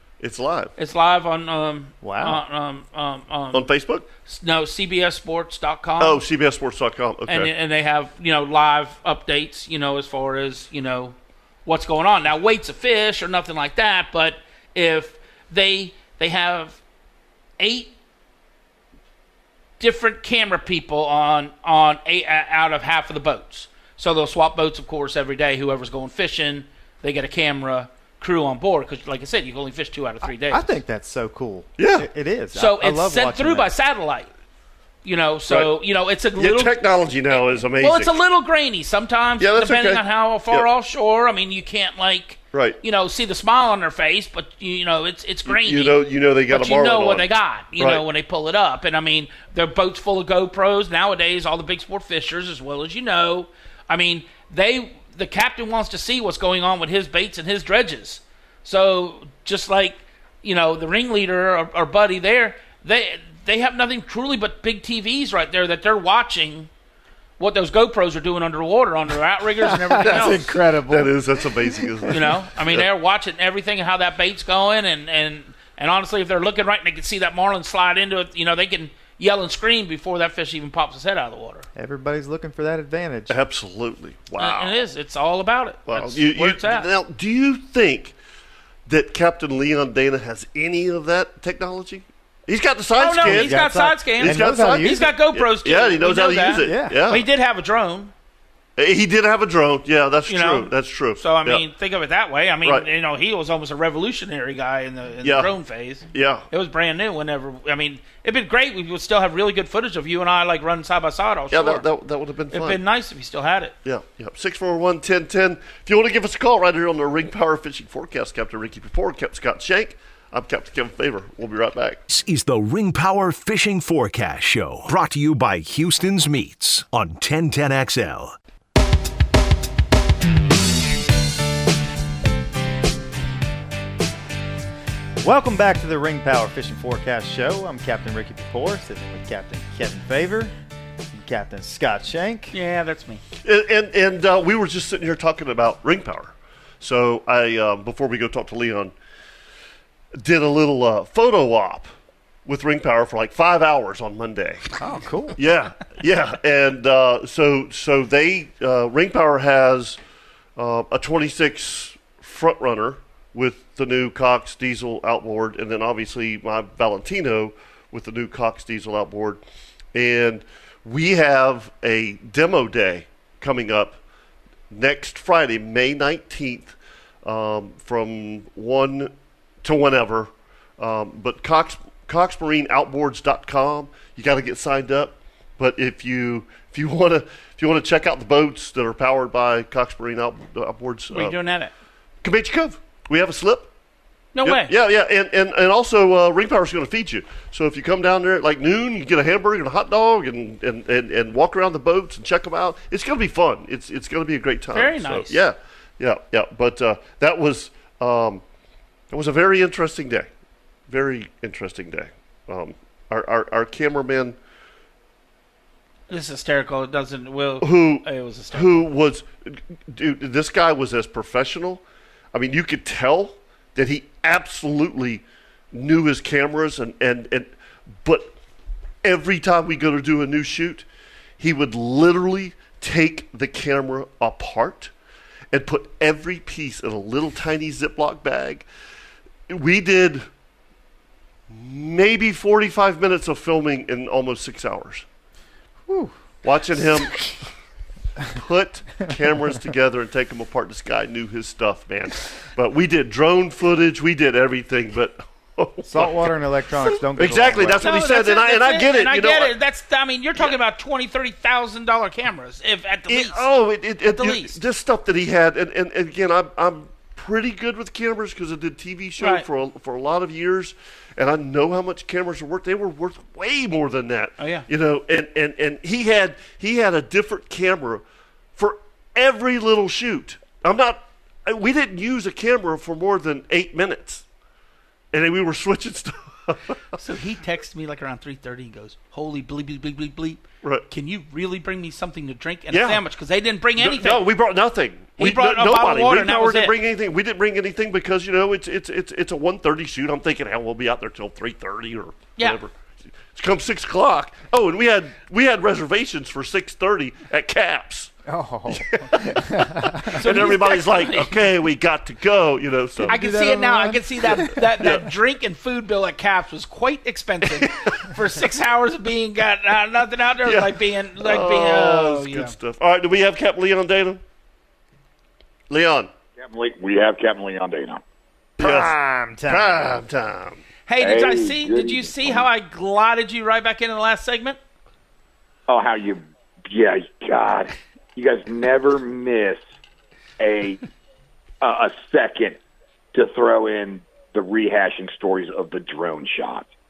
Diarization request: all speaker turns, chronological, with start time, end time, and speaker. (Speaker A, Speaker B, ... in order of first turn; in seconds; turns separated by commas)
Speaker A: 0.2-0.7, Speaker B: 0.8-3.7, Speaker C: 2.0-2.4, Speaker A: 3.5-4.1, Speaker B: 4.2-6.2, Speaker A: 6.0-7.5, Speaker B: 7.3-16.8, Speaker B: 17.6-17.9, Speaker B: 19.8-30.6, Speaker C: 30.5-33.7, Speaker A: 31.8-32.1, Speaker B: 32.5-34.3, Speaker B: 35.0-36.8, Speaker A: 36.4-38.1, Speaker B: 37.8-66.7, Speaker A: 39.4-40.7, Speaker A: 42.5-42.8, Speaker A: 45.5-48.0, Speaker B: 67.4-70.5, Speaker C: 69.6-72.1, Speaker A: 70.0-72.9, Speaker B: 72.1-81.7, Speaker C: 81.8-83.4, Speaker A: 83.3-84.7, Speaker B: 84.4-86.9, Speaker A: 85.9-88.2, Speaker A: 88.9-93.6, Speaker B: 93.0-98.1, Speaker C: 93.2-95.1, Speaker A: 94.2-97.3, Speaker C: 96.5-97.0, Speaker A: 98.8-101.7, Speaker B: 100.3-111.9, Speaker A: 105.2-105.5, Speaker A: 106.1-106.5, Speaker A: 111.5-112.8, Speaker B: 112.5-113.8, Speaker A: 113.8-122.0, Speaker D: 122.1-128.4, Speaker C: 135.2-140.5, Speaker C: 141.1-142.6, Speaker B: 142.5-143.2, Speaker A: 143.4-148.9, Speaker A: 150.2-151.9, Speaker A: 152.5-154.7, Speaker C: 154.8-155.4, Speaker A: 155.4-160.0, Speaker A: 160.6-169.4, Speaker A: 169.9-174.0, Speaker A: 174.7-179.1, Speaker A: 179.6-191.4, Speaker B: 191.1-191.7, Speaker A: 192.2-193.7, Speaker B: 194.3-194.7, Speaker A: 194.4-208.4, Speaker B: 204.7-205.4, Speaker A: 209.1-210.3, Speaker A: 210.9-214.4, Speaker B: 216.1-218.8, Speaker A: 217.6-221.8, Speaker A: 222.3-227.5, Speaker A: 228.0-228.3, Speaker A: 229.0-230.9, Speaker A: 231.4-234.9, Speaker A: 235.5-238.7, Speaker A: 239.5-240.3, Speaker A: 241.5-245.1, Speaker C: 245.9-246.1, Speaker A: 246.4-247.2, Speaker A: 248.3-256.3, Speaker C: 255.8-257.9, Speaker A: 257.1-259.5, Speaker B: 257.8-263.5, Speaker A: 263.1-278.0, Speaker B: 264.1-264.6, Speaker B: 269.2-269.4, Speaker B: 274.4-274.7, Speaker A: 278.6-284.2, Speaker A: 285.1-287.0, Speaker B: 287.0-294.3, Speaker A: 292.7-293.0, Speaker A: 293.8-302.7, Speaker B: 295.2-296.8, Speaker A: 303.3-308.1, Speaker C: 308.3-310.2, Speaker A: 308.7-313.2, Speaker B: 310.1-311.4, Speaker C: 313.0-315.0, Speaker B: 313.1-322.6, Speaker A: 317.5-318.1, Speaker A: 320.4-324.2, Speaker A: 325.7-326.1, Speaker E: 326.4-328.0, Speaker A: 328.6-328.9, Speaker C: 328.6-330.0, Speaker A: 329.5-330.6, Speaker B: 330.9-334.6, Speaker E: 331.0-332.5, Speaker E: 335.7-339.6, Speaker E: 340.4-340.8, Speaker E: 341.6-342.6, Speaker E: 343.1-346.7